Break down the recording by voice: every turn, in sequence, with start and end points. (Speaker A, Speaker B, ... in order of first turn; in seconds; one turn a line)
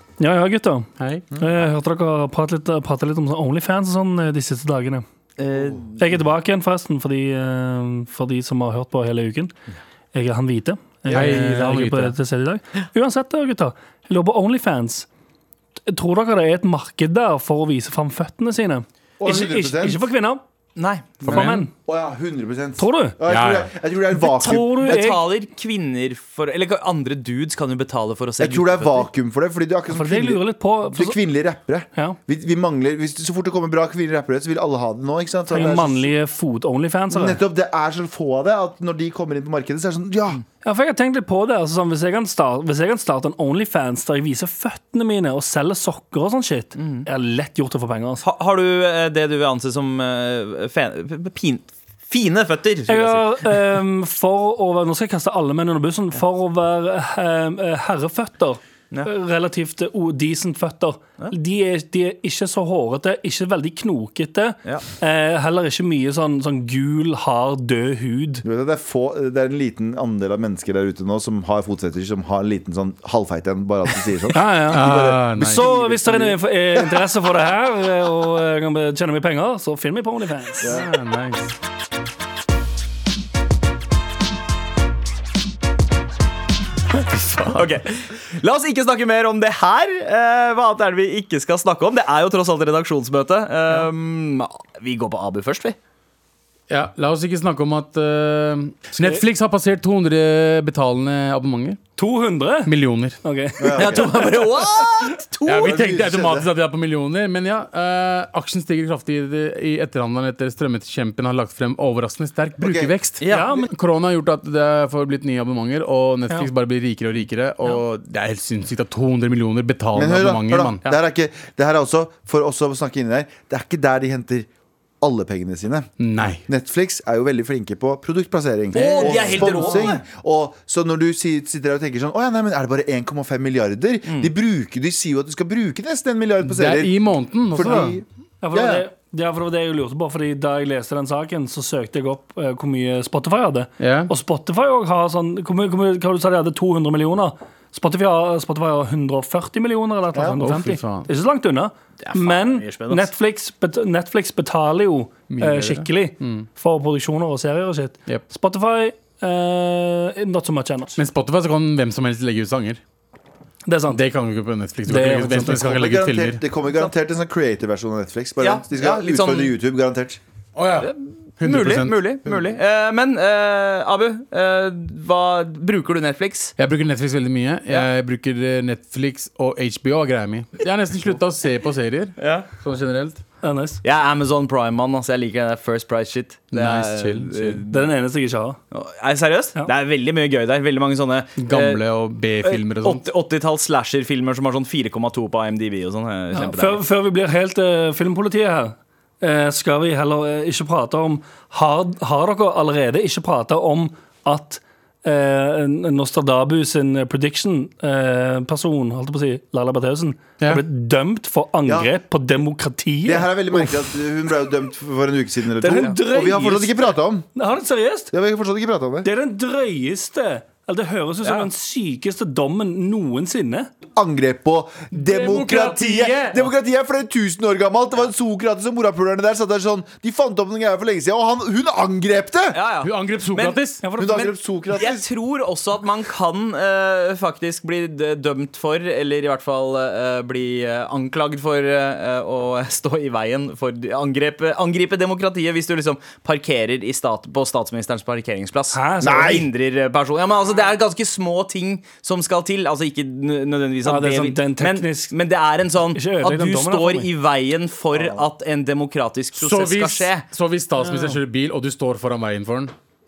Speaker A: 0.2-5.0
Speaker B: 1.0-1.2
Speaker C: 5.4-6.0
Speaker A: 6.0-9.5
Speaker A: 10.1-15.1
Speaker B: 11.1-12.1
Speaker A: 15.8-20.4
Speaker D: 19.2-20.1
Speaker C: 20.8-21.5
Speaker A: 21.2-21.7
Speaker B: 21.2-21.6
Speaker D: 21.8-24.9
Speaker A: 22.8-23.2
Speaker B: 23.2-23.7
Speaker A: 24.1-25.2
Speaker C: 24.4-29.1
Speaker D: 28.4-36.1
Speaker A: 29.9-31.2
Speaker A: 35.5-37.4
Speaker D: 37.1-40.4
Speaker A: 40.6-48.2
Speaker C: 46.8-47.0
Speaker C: 48.2-53.6
Speaker A: 52.9-68.4
Speaker D: 68.4-76.8
Speaker A: 74.3-80.8
Speaker B: 74.7-75.7
Speaker B: 80.6-81.5
Speaker B: 87.1-87.7
Speaker C: 87.5-95.8
Speaker B: 96.7-101.8
Speaker A: 99.0-99.2
Speaker A: 102.0-104.5
Speaker B: 102.7-103.2
Speaker D: 103.6-104.1
Speaker C: 103.7-105.8
Speaker B: 105.4-120.8
Speaker D: 105.6-106.5
Speaker D: 112.6-112.9
Speaker C: 113.2-113.6
Speaker A: 113.3-113.7
Speaker D: 119.9-124.5
Speaker D: 125.0-125.9
Speaker B: 126.0-126.4
Speaker D: 126.5-137.0
Speaker C: 128.7-130.0
Speaker B: 128.7-129.9
Speaker C: 134.1-134.3
Speaker B: 136.4-138.0
Speaker D: 137.5-138.9
Speaker A: 138.4-161.0
Speaker B: 143.8-144.1
Speaker D: 150.1-150.4
Speaker B: 150.4-151.1
Speaker C: 152.0-153.1
Speaker B: 155.3-156.5
Speaker B: 161.0-162.8
Speaker A: 163.7-164.0
Speaker B: 163.9-166.4
Speaker A: 164.8-165.6
Speaker D: 165.4-170.2
Speaker C: 168.4-169.5
Speaker B: 170.6-172.0
Speaker C: 170.8-176.5
Speaker B: 176.6-183.2
Speaker C: 182.2-182.5
Speaker A: 183.4-183.8
Speaker C: 183.8-187.8
Speaker B: 186.5-187.6
Speaker A: 187.7-188.6
Speaker C: 188.7-191.8
Speaker B: 191.4-193.0
Speaker C: 192.4-196.8
Speaker A: 196.3-213.9
Speaker D: 211.7-211.9
Speaker D: 213.0-217.2
Speaker A: 215.6-218.1
Speaker D: 218.1-219.1
Speaker A: 219.0-223.7
Speaker D: 223.9-232.6
Speaker B: 224.9-226.5
Speaker C: 232.5-233.6
Speaker B: 232.8-233.8
Speaker A: 233.8-234.4
Speaker D: 233.9-235.1
Speaker C: 234.8-260.2
Speaker A: 248.7-249.4
Speaker D: 249.0-249.4
Speaker A: 253.8-255.1
Speaker A: 255.9-257.1
Speaker D: 257.9-258.3
Speaker B: 259.4-262.7
Speaker A: 260.8-261.2